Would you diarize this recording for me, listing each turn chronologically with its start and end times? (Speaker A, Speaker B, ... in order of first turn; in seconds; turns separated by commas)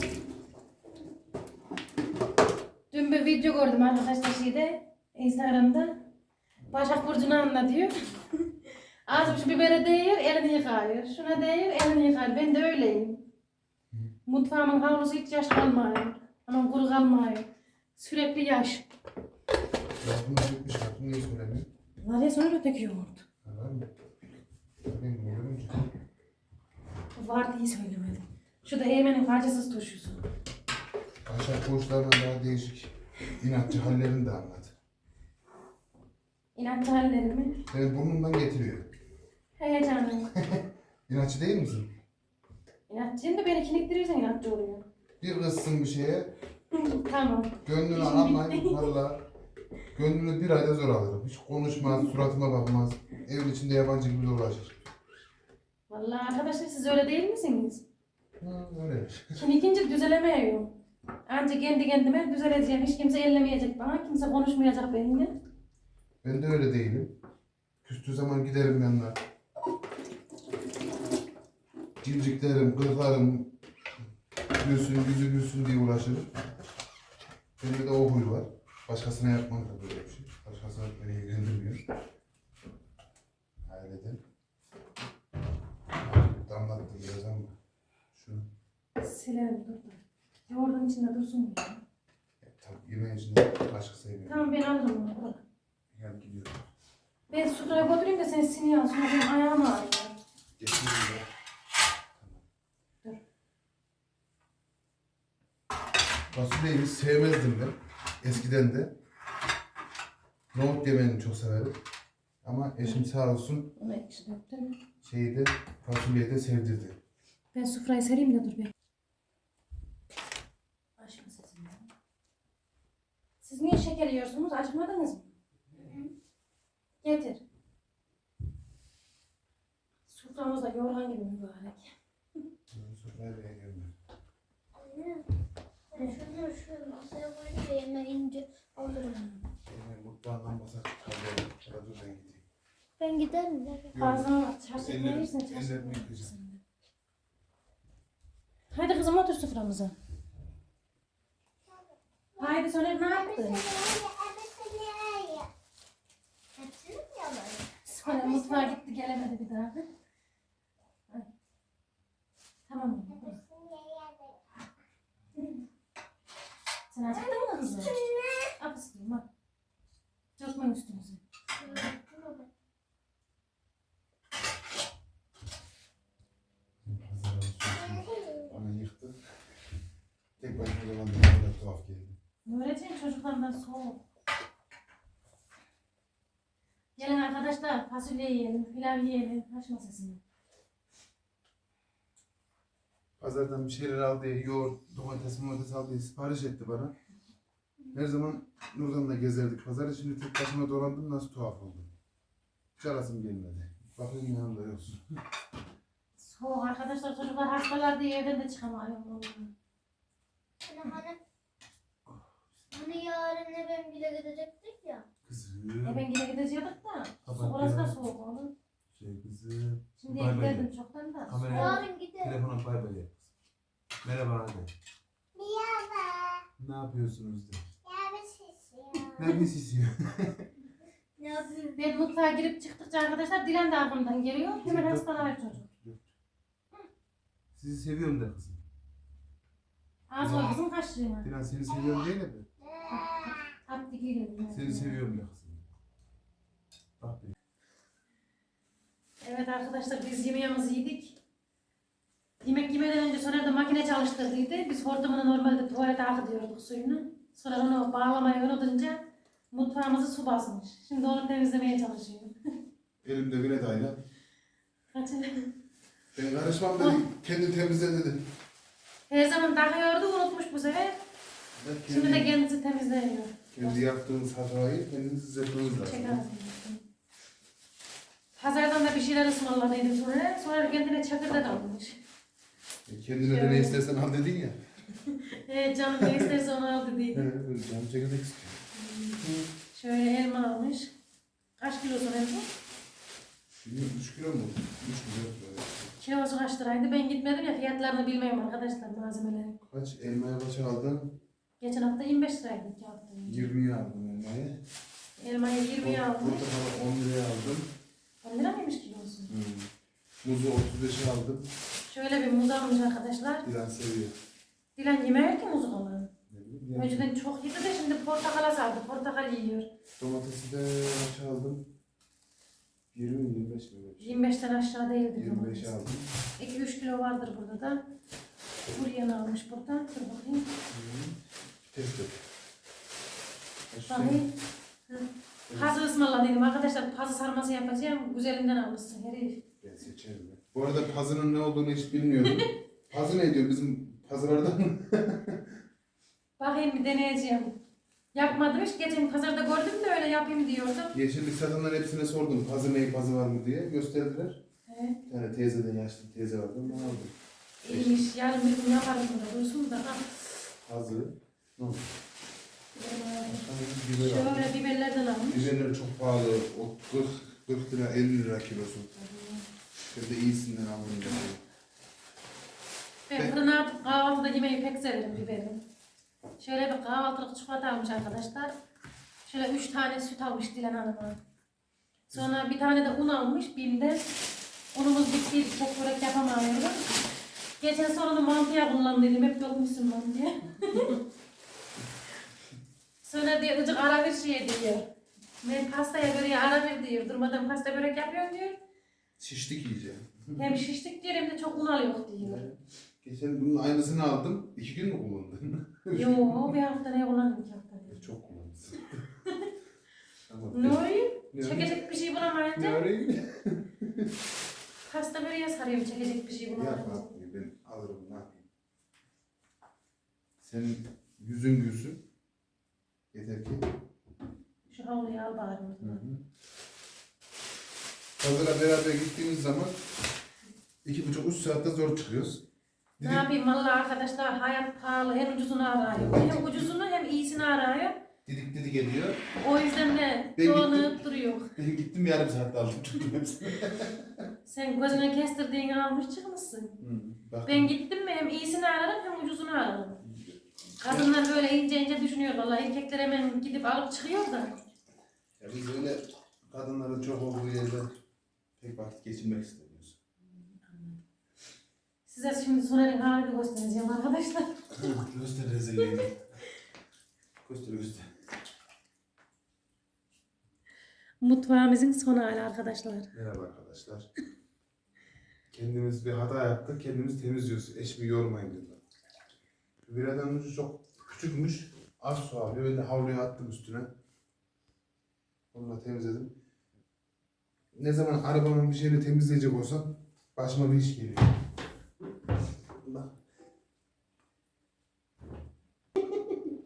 Speaker A: 2.9-5.9, Speaker A: 6.7-8.5, Speaker A: 9.1-13.2, Speaker A: 14.2-18.8, Speaker B: 20.0-21.7, Speaker A: 22.0-23.2, Speaker B: 23.4-23.9, Speaker B: 24.8-25.9, Speaker A: 27.1-30.2, Speaker B: 31.2-34.7, Speaker A: 36.5-37.6, Speaker B: 37.7-38.9, Speaker A: 39.6-40.3, Speaker B: 40.4-41.9, Speaker A: 42.9-44.8, Speaker B: 45.2-46.3, Speaker A: 46.7-48.9, Speaker B: 47.6-49.2, Speaker B: 49.9-54.8, Speaker A: 55.9-57.8, Speaker B: 58.4-59.4, Speaker A: 59.3-60.7, Speaker A: 61.3-65.3, Speaker B: 66.2-67.1, Speaker B: 67.8-69.2, Speaker B: 72.0-73.5, Speaker B: 74.6-76.3, Speaker B: 77.6-81.8, Speaker B: 83.6-84.2, Speaker B: 86.0-87.5, Speaker B: 88.1-88.5, Speaker A: 89.0-91.8, Speaker B: 92.4-94.5, Speaker A: 94.2-95.4, Speaker B: 95.9-96.7, Speaker A: 97.3-100.2, Speaker B: 100.6-101.3, Speaker B: 102.1-102.4, Speaker B: 106.3-108.9, Speaker B: 110.5-111.8, Speaker B: 112.4-113.7, Speaker A: 113.8-114.8, Speaker B: 115.0-117.0, Speaker A: 117.5-118.7, Speaker A: 121.0-121.8, Speaker A: 123.4-125.3, Speaker C: 125.8-126.1, Speaker A: 127.0-127.4, Speaker A: 130.1-131.9, Speaker B: 132.7-133.9, Speaker C: 134.7-135.3, Speaker C: 135.9-139.4, Speaker B: 139.7-142.4, Speaker C: 143.0-143.9, Speaker B: 143.9-146.3, Speaker A: 143.9-146.6, Speaker A: 148.7-149.9, Speaker C: 151.7-155.5, Speaker A: 152.4-153.6, Speaker C: 156.6-158.8, Speaker A: 157.8-159.9, Speaker A: 162.7-163.4, Speaker C: 163.1-164.4, Speaker A: 166.9-167.9, Speaker C: 167.1-168.5, Speaker A: 168.6-169.2, Speaker A: 170.4-171.8, Speaker C: 171.6-172.5, Speaker B: 176.8-179.2, Speaker C: 177.8-178.5, Speaker B: 180.4-182.2, Speaker A: 182.4-184.0, Speaker A: 186.9-190.2, Speaker B: 193.2-196.9, Speaker B: 197.9-201.9, Speaker B: 202.8-205.0, Speaker A: 206.2-209.5, Speaker C: 210.6-211.2, Speaker C: 212.7-215.0, Speaker B: 215.2-216.0, Speaker A: 215.8-218.5, Speaker B: 217.2-218.0, Speaker B: 218.9-220.7, Speaker A: 220.0-221.8, Speaker B: 221.3-223.3, Speaker C: 221.5-222.4, Speaker B: 224.0-224.7, Speaker C: 225.3-226.4, Speaker B: 226.6-227.7, Speaker C: 227.8-229.4, Speaker B: 229.1-230.5, Speaker C: 231.2-231.8, Speaker A: 231.8-235.7, Speaker B: 234.6-236.1, Speaker B: 237.5-238.6, Speaker A: 240.1-241.3, Speaker B: 240.2-240.6, Speaker B: 241.2-242.5, Speaker C: 242.7-243.5, Speaker A: 242.9-245.0, Speaker B: 244.5-245.7, Speaker B: 247.0-247.3, Speaker A: 249.2-251.2, Speaker A: 252.4-262.4, Speaker B: 263.0-264.0, Speaker A: 264.9-265.5, Speaker B: 266.1-268.3, Speaker A: 269.1-271.0, Speaker B: 271.5-272.3, Speaker A: 271.9-273.8, Speaker B: 273.5-276.2, Speaker A: 275.7-276.8, Speaker A: 278.4-282.0, Speaker B: 282.9-284.6, Speaker A: 283.2-283.8, Speaker A: 285.1-287.2, Speaker B: 286.0-286.3, Speaker B: 287.1-289.5, Speaker A: 288.7-290.9, Speaker A: 291.6-292.5, Speaker B: 293.6-295.9, Speaker A: 296.0-299.6, Speaker B: 299.6-301.2, Speaker A: 301.6-303.5, Speaker B: 303.2-304.6, Speaker A: 305.2-306.4, Speaker B: 305.8-307.7, Speaker A: 308.2-309.3, Speaker B: 309.3-309.7, Speaker B: 310.2-311.5, Speaker A: 311.9-313.4, Speaker B: 313.4-314.1, Speaker A: 314.8-316.1, Speaker B: 316.3-317.1, Speaker A: 316.7-319.7, Speaker B: 320.0-321.7, Speaker B: 322.9-324.2, Speaker A: 324.0-325.7, Speaker B: 325.1-326.2, Speaker A: 326.4-327.8, Speaker A: 328.7-330.5, Speaker B: 330.7-332.2, Speaker B: 333.7-334.2, Speaker A: 333.9-334.3, Speaker A: 334.9-339.4, Speaker B: 335.5-335.8, Speaker B: 339.6-345.6, Speaker A: 346.4-347.6, Speaker A: 348.1-350.9, Speaker B: 350.9-354.4, Speaker A: 354.7-355.0, Speaker B: 355.1-358.1, Speaker A: 357.6-360.3, Speaker B: 360.6-361.9, Speaker A: 362.7-365.5, Speaker B: 363.3-364.5, Speaker B: 365.3-368.9, Speaker A: 369.0-369.4, Speaker B: 369.9-371.4, Speaker A: 373.1-375.6, Speaker A: 376.4-378.5, Speaker A: 379.2-381.2, Speaker A: 382.1-384.2, Speaker A: 384.7-386.8, Speaker A: 387.6-391.0, Speaker A: 393.0-394.9, Speaker A: 395.4-398.6, Speaker B: 399.2-400.6, Speaker A: 400.4-402.4, Speaker B: 402.2-406.6, Speaker A: 405.9-408.0, Speaker B: 407.9-409.0, Speaker B: 410.3-411.9, Speaker A: 410.5-412.8, Speaker B: 412.5-414.2, Speaker A: 414.8-417.1, Speaker B: 416.6-418.4, Speaker B: 420.4-422.0, Speaker B: 423.1-423.8, Speaker A: 424.7-426.0, Speaker B: 425.8-426.2, Speaker B: 428.2-429.9, Speaker B: 430.8-432.4, Speaker B: 433.0-433.3, Speaker A: 433.0-438.0, Speaker B: 435.9-436.7, Speaker B: 438.2-439.3, Speaker A: 439.4-441.5, Speaker B: 440.4-441.0, Speaker B: 441.6-444.3, Speaker A: 444.4-446.8, Speaker B: 446.8-447.7, Speaker A: 447.4-450.0, Speaker B: 450.0-451.1, Speaker A: 450.8-454.6, Speaker B: 455.4-457.9, Speaker B: 458.6-460.0, Speaker A: 460.6-461.0, Speaker A: 462.1-464.7, Speaker B: 464.7-466.2, Speaker B: 467.4-468.1, Speaker A: 471.2-473.1, Speaker B: 473.1-474.1, Speaker B: 475.5-478.8, Speaker B: 479.8-483.9, Speaker B: 485.5-486.4, Speaker B: 487.7-491.3, Speaker B: 492.8-493.2